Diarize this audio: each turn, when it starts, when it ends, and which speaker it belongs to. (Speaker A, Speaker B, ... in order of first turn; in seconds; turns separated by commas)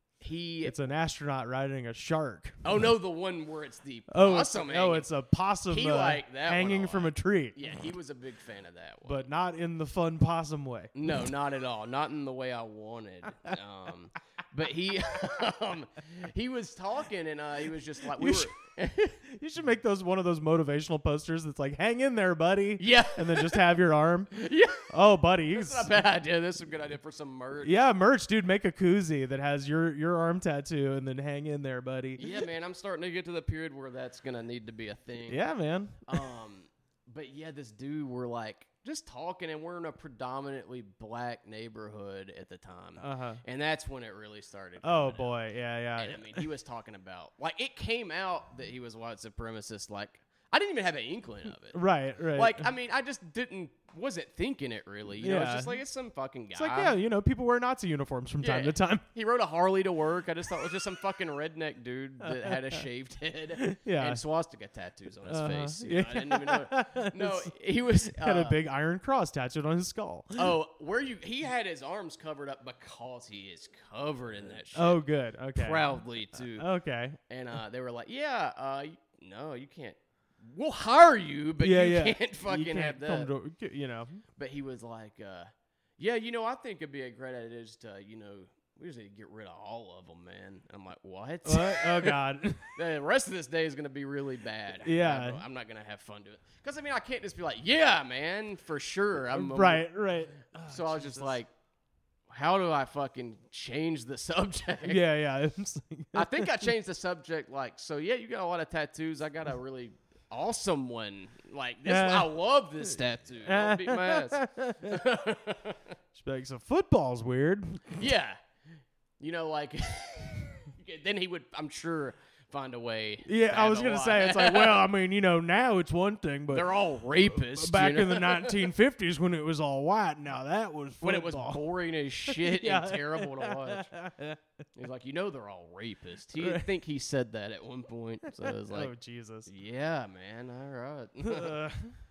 Speaker A: 0.2-0.8, Speaker B: 0.6-2.8, Speaker A: 2.6-5.1, Speaker B: 4.1-7.7, Speaker A: 5.7-9.3, Speaker B: 9.0-11.3, Speaker A: 10.9-19.2, Speaker B: 18.1-18.5, Speaker B: 19.2-26.0, Speaker A: 22.8-23.6, Speaker A: 24.3-24.9, Speaker A: 25.5-27.7, Speaker B: 27.6-32.4, Speaker A: 32.2-35.4, Speaker B: 35.3-36.2, Speaker A: 36.1-45.3, Speaker B: 43.0-43.4, Speaker B: 44.8-46.4, Speaker A: 46.0-51.8, Speaker B: 51.7-52.7, Speaker A: 52.3-56.9, Speaker B: 55.2-55.8, Speaker B: 56.5-59.0, Speaker A: 58.4-68.6, Speaker B: 62.2-62.8, Speaker B: 63.6-64.2, Speaker B: 65.2-67.5, Speaker B: 68.0-70.5, Speaker A: 70.3-75.0, Speaker B: 74.7-77.2, Speaker A: 75.5-76.7, Speaker A: 77.3-83.3, Speaker B: 81.6-84.2, Speaker A: 84.4-92.2, Speaker B: 91.4-92.7, Speaker A: 92.7-99.9, Speaker B: 94.8-95.4, Speaker B: 99.3-101.4, Speaker A: 100.6-101.5, Speaker A: 102.3-105.0, Speaker B: 104.8-106.7, Speaker A: 106.1-115.9, Speaker B: 111.8-112.3, Speaker B: 113.4-115.0, Speaker B: 116.1-118.1, Speaker A: 118.0-118.4, Speaker A: 119.2-124.8, Speaker B: 123.2-131.6, Speaker A: 126.5-128.7, Speaker A: 131.0-133.9, Speaker B: 132.3-134.4, Speaker A: 134.8-138.9, Speaker B: 136.3-136.7, Speaker B: 138.4-139.5, Speaker A: 139.4-141.6, Speaker B: 141.2-142.0